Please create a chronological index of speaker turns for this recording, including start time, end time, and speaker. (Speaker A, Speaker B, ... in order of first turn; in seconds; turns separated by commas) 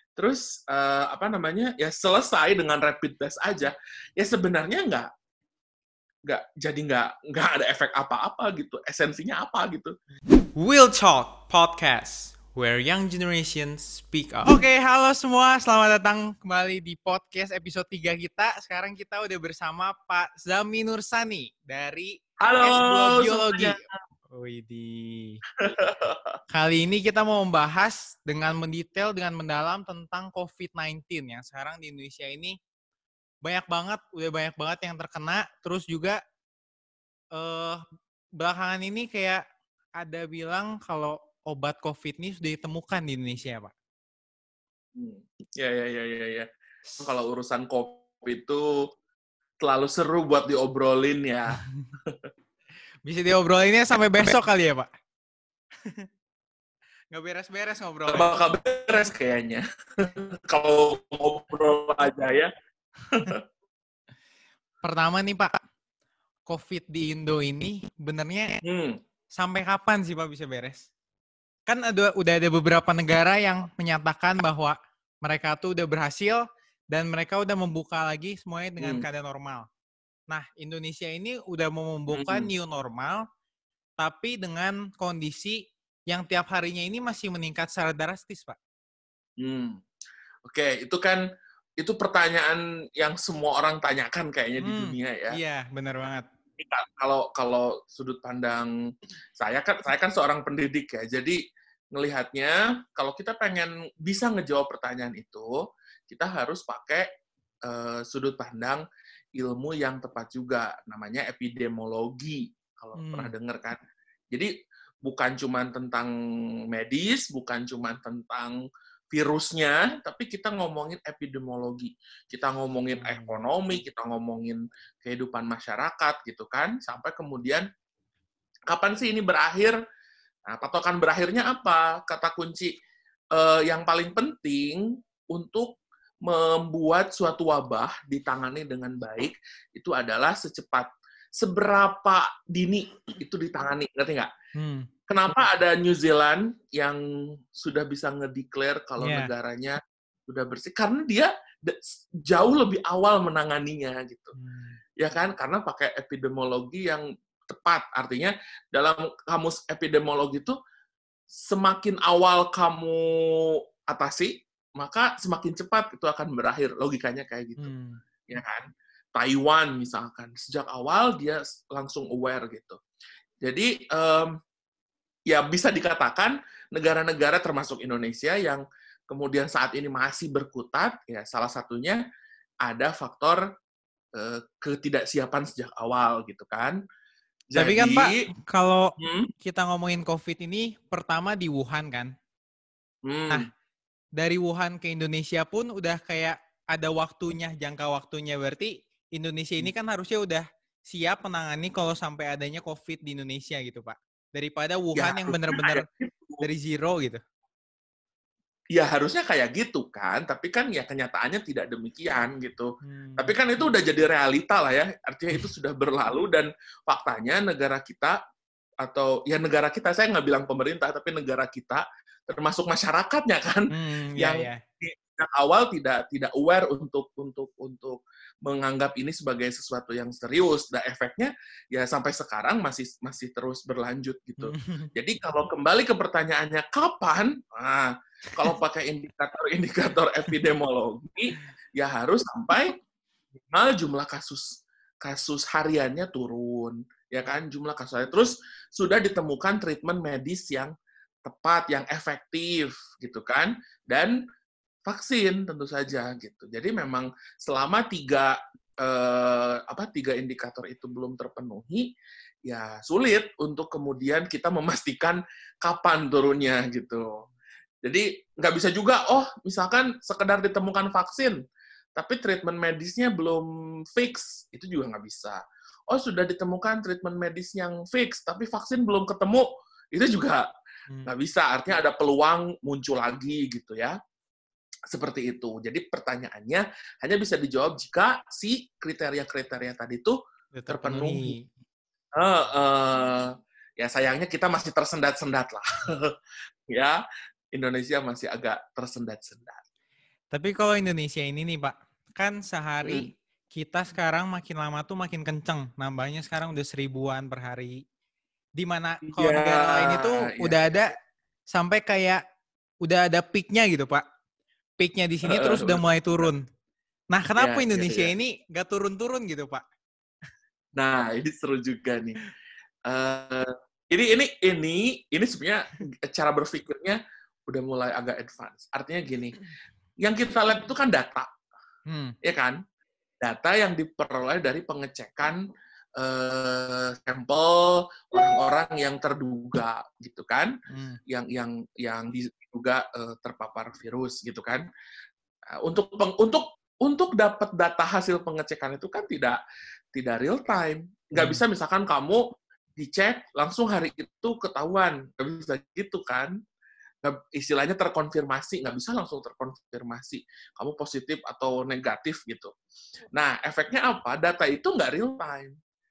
Speaker A: 0.2-5.1, Speaker A: 6.3-9.9, Speaker B: 10.6-14.4, Speaker C: 14.4-25.4, Speaker A: 22.4-23.8, Speaker A: 25.6-26.4, Speaker C: 26.5-32.6, Speaker C: 33.4-36.2, Speaker C: 37.3-37.8, Speaker C: 38.4-39.4, Speaker C: 40.0-43.7, Speaker A: 45.0-48.7, Speaker A: 49.6-52.2, Speaker C: 53.0-54.9, Speaker C: 55.8-56.1, Speaker C: 57.1-58.3, Speaker A: 58.1-62.5, Speaker A: 63.1-63.4, Speaker C: 64.8-65.6, Speaker C: 66.5-68.6, Speaker A: 68.6-69.0, Speaker C: 69.4-70.9, Speaker C: 71.7-79.7, Speaker A: 78.8-79.1, Speaker C: 80.3-83.2, Speaker A: 82.1-82.5, Speaker C: 84.0-88.6, Speaker A: 89.4-89.8, Speaker A: 90.5-91.2, Speaker A: 91.8-95.4, Speaker C: 94.6-96.3, Speaker A: 96.6-98.7, Speaker A: 99.4-101.4, Speaker A: 102.0-105.5, Speaker A: 106.1-107.1, Speaker A: 107.7-108.8, Speaker A: 109.4-113.8, Speaker C: 113.0-113.3, Speaker A: 115.0-116.1, Speaker A: 116.7-118.6, Speaker A: 119.1-127.7, Speaker C: 122.9-123.4, Speaker A: 128.7-129.8, Speaker A: 130.5-132.7, Speaker A: 133.3-144.3, Speaker C: 144.6-144.9, Speaker A: 145.1-147.0, Speaker A: 147.5-154.3, Speaker C: 149.0-149.3, Speaker C: 154.4-154.8, Speaker A: 155.0-160.6, Speaker A: 161.5-167.7, Speaker C: 167.6-168.0, Speaker A: 168.3-172.8, Speaker A: 173.4-174.3, Speaker A: 175.3-182.0, Speaker A: 182.7-183.4, Speaker A: 184.2-186.8, Speaker A: 187.5-188.2, Speaker C: 187.6-192.1, Speaker A: 189.0-189.3, Speaker A: 193.1-193.5, Speaker C: 194.2-205.9, Speaker A: 205.0-206.4, Speaker C: 206.4-207.2, Speaker A: 208.8-218.2, Speaker C: 212.8-213.3, Speaker A: 218.8-242.8, Speaker C: 223.7-224.6, Speaker C: 234.4-234.9, Speaker A: 243.5-250.7, Speaker A: 251.2-254.2, Speaker A: 254.9-261.9, Speaker A: 262.5-267.3, Speaker A: 267.9-271.4, Speaker A: 272.0-275.4, Speaker A: 275.9-280.4, Speaker A: 281.1-284.0, Speaker A: 284.9-290.2, Speaker C: 290.5-291.5, Speaker A: 290.7-291.3, Speaker A: 292.2-296.1, Speaker A: 296.7-297.0, Speaker A: 297.5-299.6, Speaker C: 300.3-307.8, Speaker A: 302.8-303.1, Speaker C: 308.6-311.0, Speaker A: 309.1-310.8, Speaker C: 311.5-312.2, Speaker C: 312.8-314.0, Speaker C: 314.8-316.4, Speaker A: 315.2-316.3, Speaker C: 317.1-319.6, Speaker A: 317.4-318.1, Speaker A: 320.8-322.2, Speaker A: 322.9-329.4, Speaker A: 330.0-331.3, Speaker C: 331.9-332.2, Speaker A: 332.2-332.6, Speaker A: 333.2-335.4, Speaker A: 336.0-340.6, Speaker C: 340.7-341.0, Speaker A: 341.1-344.6, Speaker A: 345.6-349.4, Speaker A: 349.9-352.2, Speaker C: 351.2-351.4, Speaker A: 352.8-356.3, Speaker A: 357.0-362.5, Speaker A: 363.1-365.6